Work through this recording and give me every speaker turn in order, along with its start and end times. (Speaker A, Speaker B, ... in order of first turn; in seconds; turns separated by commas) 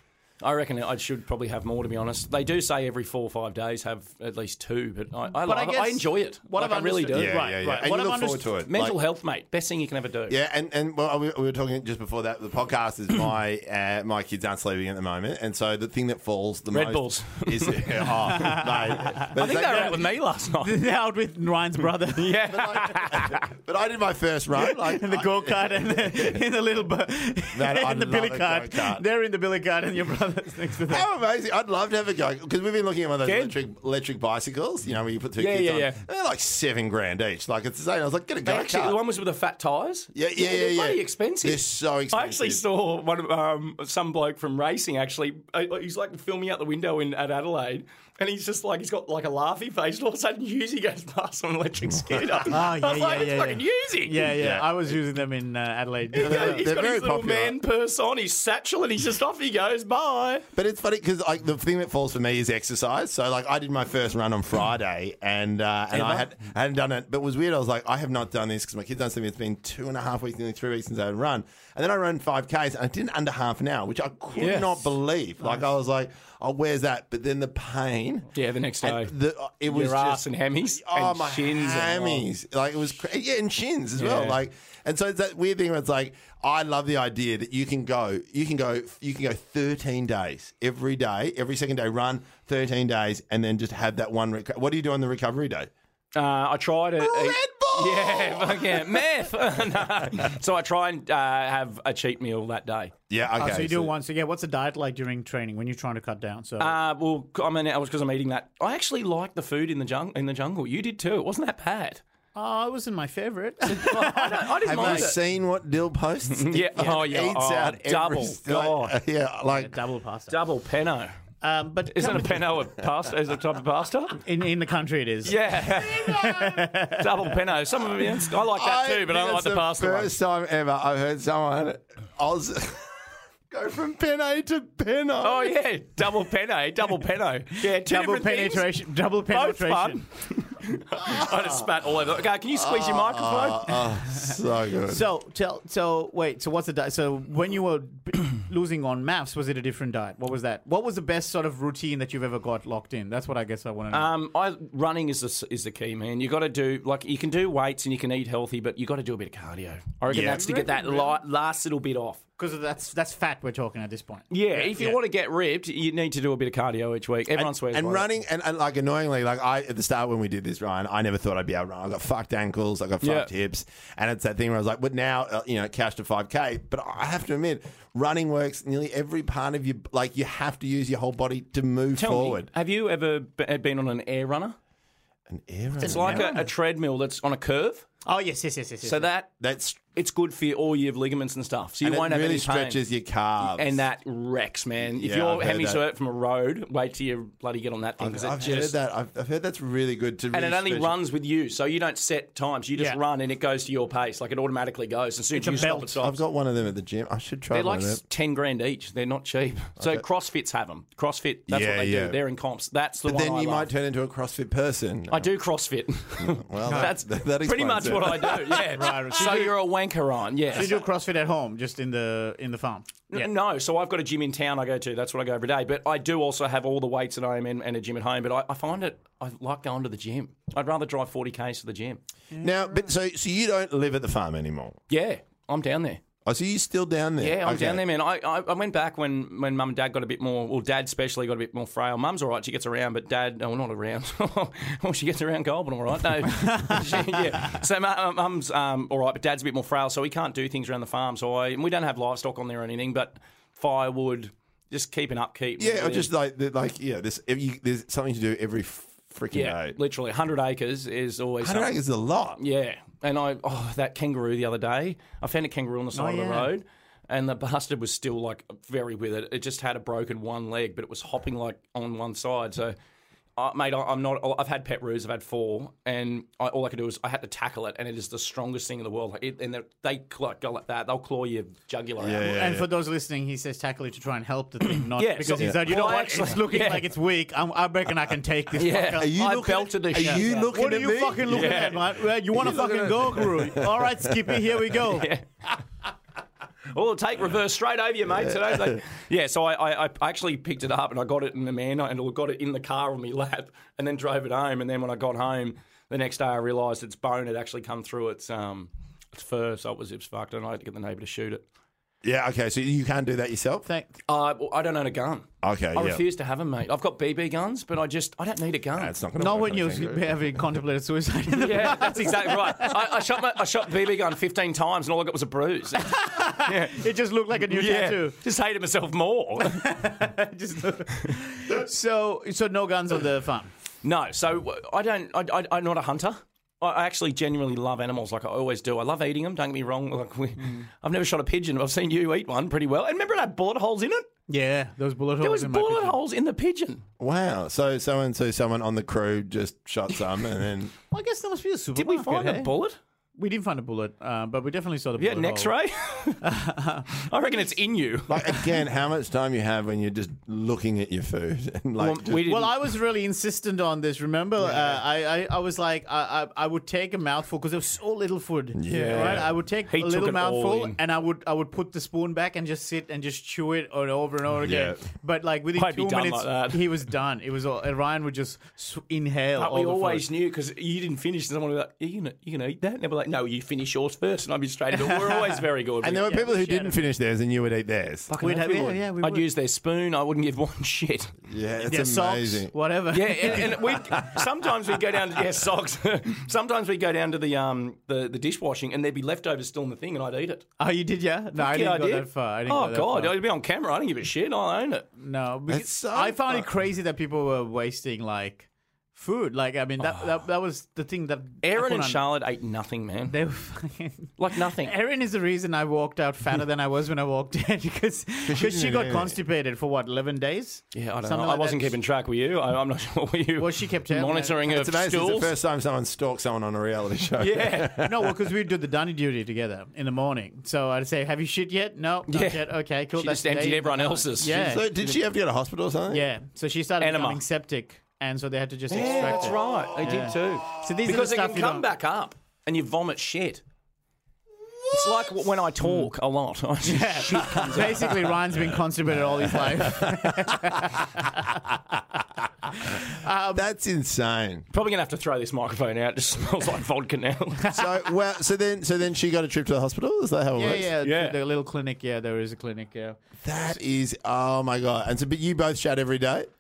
Speaker A: 0.4-7.5, Speaker B: 5.3-8.5, Speaker C: 7.1-9.0, Speaker A: 8.6-10.4, Speaker C: 10.3-20.0, Speaker A: 16.7-18.6, Speaker B: 18.3-20.0, Speaker A: 19.2-20.8, Speaker B: 20.6-22.4, Speaker A: 22.1-23.4, Speaker C: 22.5-26.4, Speaker B: 24.6-31.1, Speaker C: 27.5-29.0, Speaker C: 30.9-39.0, Speaker A: 33.2-33.6, Speaker A: 35.4-36.0, Speaker A: 38.4-54.3, Speaker C: 40.1-42.6, Speaker B: 52.4-56.6, Speaker C: 54.4-54.9, Speaker A: 56.1-60.4, Speaker C: 56.2-57.6, Speaker C: 60.5-78.3, Speaker A: 74.4-74.9, Speaker A: 78.3-79.1, Speaker C: 78.8-80.2, Speaker A: 79.7-82.3, Speaker C: 80.8-95.7, Speaker A: 84.0-84.4, Speaker A: 96.1-102.9, Speaker C: 97.0-99.6, Speaker C: 103.1-103.9, Speaker B: 103.4-106.8, Speaker A: 106.6-112.0, Speaker B: 112.3-115.1, Speaker A: 113.7-115.2, Speaker C: 114.6-119.7, Speaker A: 116.3-118.9, Speaker B: 119.5-120.4, Speaker A: 120.3-121.2, Speaker B: 121.4-122.5, Speaker A: 121.9-124.2, Speaker B: 124.2-127.3, Speaker A: 125.2-130.1, Speaker C: 126.0-126.3, Speaker C: 128.4-132.9, Speaker C: 133.5-135.6, Speaker A: 135.2-138.7, Speaker B: 137.6-140.0, Speaker A: 139.2-143.9, Speaker C: 141.0-141.7, Speaker C: 142.5-145.0, Speaker B: 144.9-154.1, Speaker A: 153.9-162.2, Speaker C: 160.1-160.5, Speaker B: 160.1-161.2, Speaker B: 162.4-165.0, Speaker A: 164.3-168.1, Speaker C: 167.3-182.5, Speaker A: 173.0-173.3, Speaker A: 181.9-184.6, Speaker C: 185.3-186.3, Speaker A: 185.8-187.8, Speaker B: 185.9-186.5, Speaker B: 188.1-189.1, Speaker A: 188.8-192.8, Speaker C: 189.4-189.8, Speaker C: 191.8-193.8, Speaker A: 193.4-198.7, Speaker C: 194.9-195.8, Speaker C: 198.0-200.9, Speaker A: 200.3-206.2, Speaker B: 205.3-206.0, Speaker C: 206.0-208.0, Speaker A: 207.5-213.7, Speaker C: 211.5-212.2, Speaker C: 213.0-215.3, Speaker A: 215.1-220.8, Speaker C: 216.2-218.8, Speaker B: 216.6-216.9, Speaker B: 218.7-219.6, Speaker B: 220.5-223.3, Speaker A: 223.1-232.0, Speaker B: 232.3-232.9, Speaker C: 232.4-234.8, Speaker A: 234.9-236.0, Speaker C: 236.2-237.8, Speaker A: 237.2-256.1, Speaker B: 246.3-247.2, Speaker C: 255.6-259.7, Speaker A: 259.3-261.8, Speaker C: 261.4-262.4, Speaker A: 262.4-272.7, Speaker B: 265.9-266.5, Speaker A: 273.4-282.3, Speaker C: 282.0-282.7, Speaker B: 282.2-289.1, Speaker A: 284.8-286.9, Speaker C: 285.3-285.7, Speaker A: 288.6-290.5, Speaker C: 289.0-291.8, Speaker B: 290.0-295.1, Speaker A: 291.2-291.8, Speaker C: 292.3-294.2, Speaker A: 294.8-295.2, Speaker A: 296.7-311.4, Speaker C: 298.3-298.8, Speaker C: 312.0-313.6, Speaker B: 313.6-314.0, Speaker A: 314.1-318.9, Speaker C: 315.4-316.0, Speaker C: 318.7-320.2, Speaker B: 319.2-322.9, Speaker A: 321.4-326.9, Speaker B: 325.8-328.2, Speaker A: 327.5-329.7, Speaker B: 329.4-333.5, Speaker A: 333.8-344.1, Speaker B: 340.4-340.6, Speaker B: 344.3-346.0, Speaker A: 345.2-346.8, Speaker C: 347.0-350.7, Speaker B: 350.9-352.5, Speaker A: 351.7-352.8, Speaker B: 353.2-355.6, Speaker A: 355.0-356.2, Speaker B: 356.2-357.0, Speaker A: 356.9-358.3, Speaker C: 358.1-362.2, Speaker A: 361.8-362.5, Speaker B: 362.2-380.1, Speaker C: 368.6-369.3, Speaker A: 368.7-370.8, Speaker C: 374.4-374.8, Speaker A: 375.6-376.7, Speaker A: 379.4-386.1, Speaker B: 384.9-385.4, Speaker C: 385.8-388.1, Speaker B: 385.9-386.8, Speaker A: 388.1-391.2, Speaker B: 388.2-389.2, Speaker C: 391.3-392.5, Speaker B: 391.6-393.8, Speaker A: 392.9-400.4, Speaker B: 400.6-403.1, Speaker A: 401.4-404.9, Speaker B: 405.0-412.0, Speaker C: 405.5-406.5, Speaker A: 411.4-413.2, Speaker B: 413.1-421.8, Speaker A: 414.2-414.7, Speaker C: 418.3-419.2, Speaker A: 420.7-425.4, Speaker B: 423.4-424.4, Speaker C: 424.5-428.1, Speaker A: 427.2-427.8, Speaker B: 427.8-434.8, Speaker A: 432.1-434.6, Speaker C: 434.2-436.1, Speaker B: 435.9-441.7, Speaker A: 436.8-437.2, Speaker A: 438.7-443.4, Speaker C: 438.9-440.3, Speaker A: 444.7-448.1, Speaker B: 445.6-445.9, Speaker B: 446.6-451.5, Speaker C: 449.5-450.4, Speaker B: 452.5-453.5, Speaker C: 453.3-454.4, Speaker A: 454.5-457.6, Speaker C: 457.5-460.7, Speaker B: 460.3-463.6, Speaker A: 460.8-461.1, Speaker C: 463.2-466.3